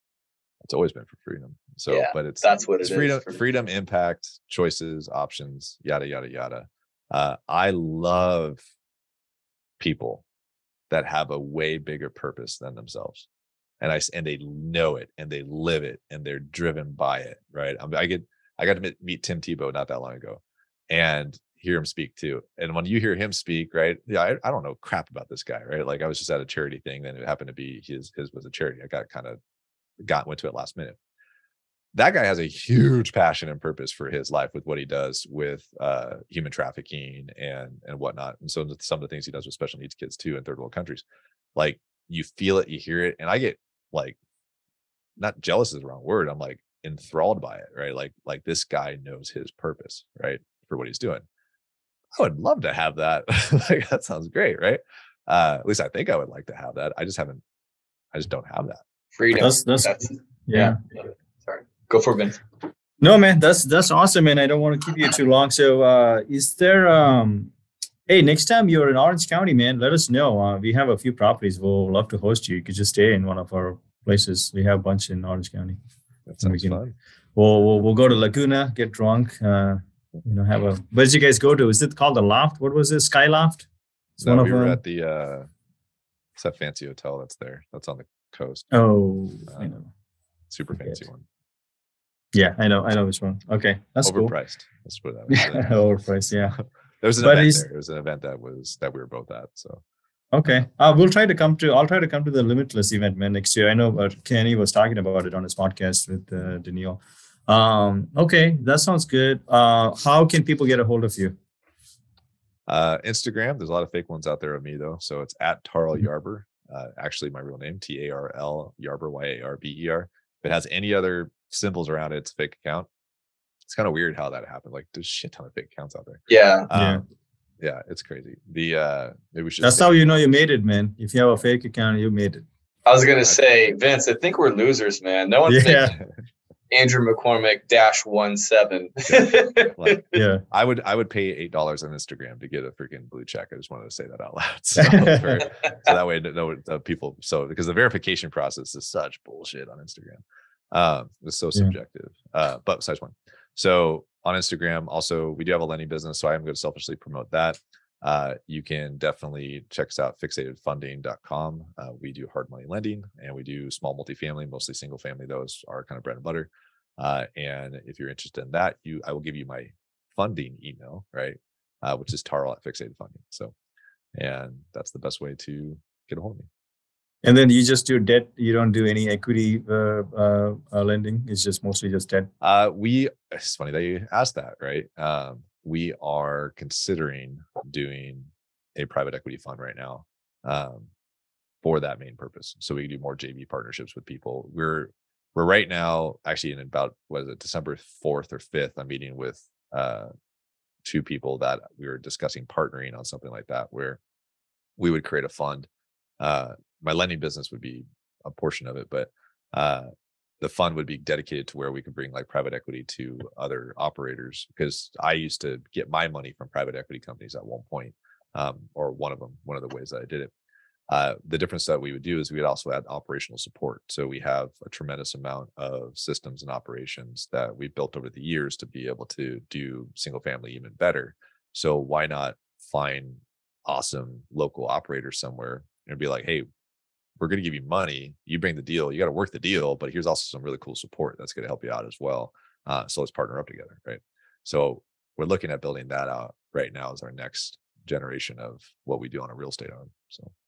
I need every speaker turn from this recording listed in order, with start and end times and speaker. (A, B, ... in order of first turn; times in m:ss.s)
0:00.6-0:08.6 A
0:01.9-0:03.4 B
0:09.8-0:10.2 A
0:10.9-0:13.2 A
0:13.8-0:29.4 A
0:30.0-0:31.0 A
0:31.9-0:41.0 A
0:41.5-0:44.2 A
0:45.2-0:51.2 A
0:52.2-0:57.4 A
0:58.1-0:58.8 A
0:59.1-1:02.4 B
0:59.4-1:00.8 C
1:03.0-1:07.5 C
1:08.1-1:15.8 C
1:16.2-1:17.0 A
1:16.4-1:16.8 C
1:17.4-1:24.8 C
1:24.2-1:25.5 A
1:26.4-1:28.7 A
1:28.7-1:29.9 C
1:30.5-1:31.2 A
1:32.3-1:34.3 C
1:34.0-1:35.7 A
1:35.3-1:36.6 C
1:36.6-1:39.8 A
1:37.2-1:37.6 C
1:40.3-1:51.3 C
1:52.7-2:02.9 A
2:03.6-2:07.0 A
2:06.3-2:06.7 B
2:06.7-2:07.0 C
2:07.6-2:10.1 A
2:09.6-2:12.4 C
2:12.8-2:16.0 B
2:15.5-2:16.0 C
2:16.7-2:20.2 B
2:19.1-2:53.5 A
2:20.1-2:20.4 C
2:24.8-2:25.4 C
2:54.1-2:56.5 A
2:57.2-3:02.3 C
3:02.4-3:10.9 A
3:11.6-3:20.1 A
3:20.8-3:24.0 A
3:24.8-3:25.7 A
3:26.2-3:29.9 A
3:30.4-3:40.3 A
3:40.9-3:56.4 A
3:57.2-4:10.3 A